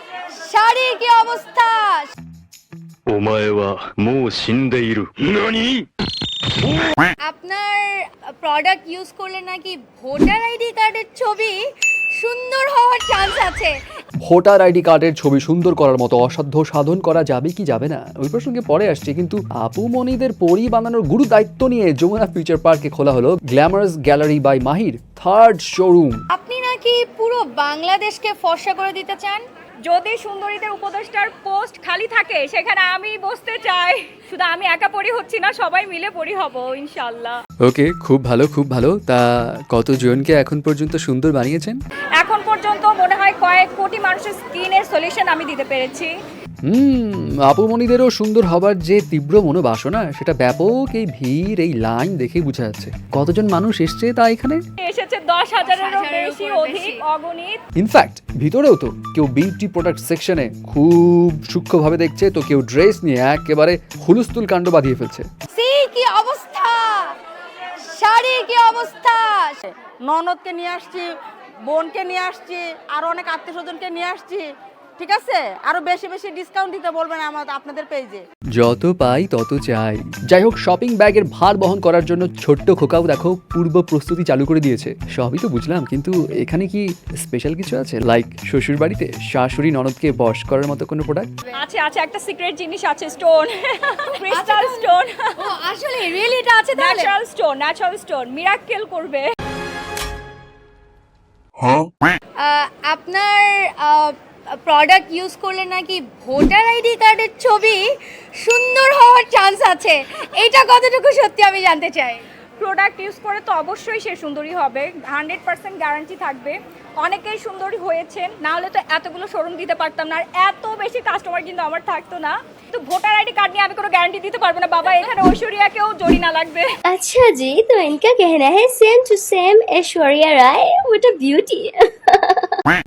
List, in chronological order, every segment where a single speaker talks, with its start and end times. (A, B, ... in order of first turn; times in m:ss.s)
0:00.4-0:02.1 A
0:03.1-0:05.8 B
0:07.3-0:11.6 A
0:12.2-0:13.7 A
0:14.2-0:26.2 C
0:26.3-0:29.4 A
0:29.8-0:37.4 D
0:37.6-0:41.8 C
0:42.2-0:46.1 D
0:46.7-0:54.6 C
0:54.8-0:57.6 D
0:55.7-0:57.0 A
0:57.8-1:05.3 C
1:05.5-1:07.2 A
1:07.9-1:09.7 A
1:10.0-1:11.1 E
1:11.7-1:18.2 E
1:18.6-1:31.3 C
1:31.6-1:35.4 D
1:34.3-1:37.1 A
1:36.8-1:39.3 D
1:42.4-1:47.8 A
1:48.4-1:52.2 A
1:52.6-2:06.7 D
2:06.9-2:12.6 F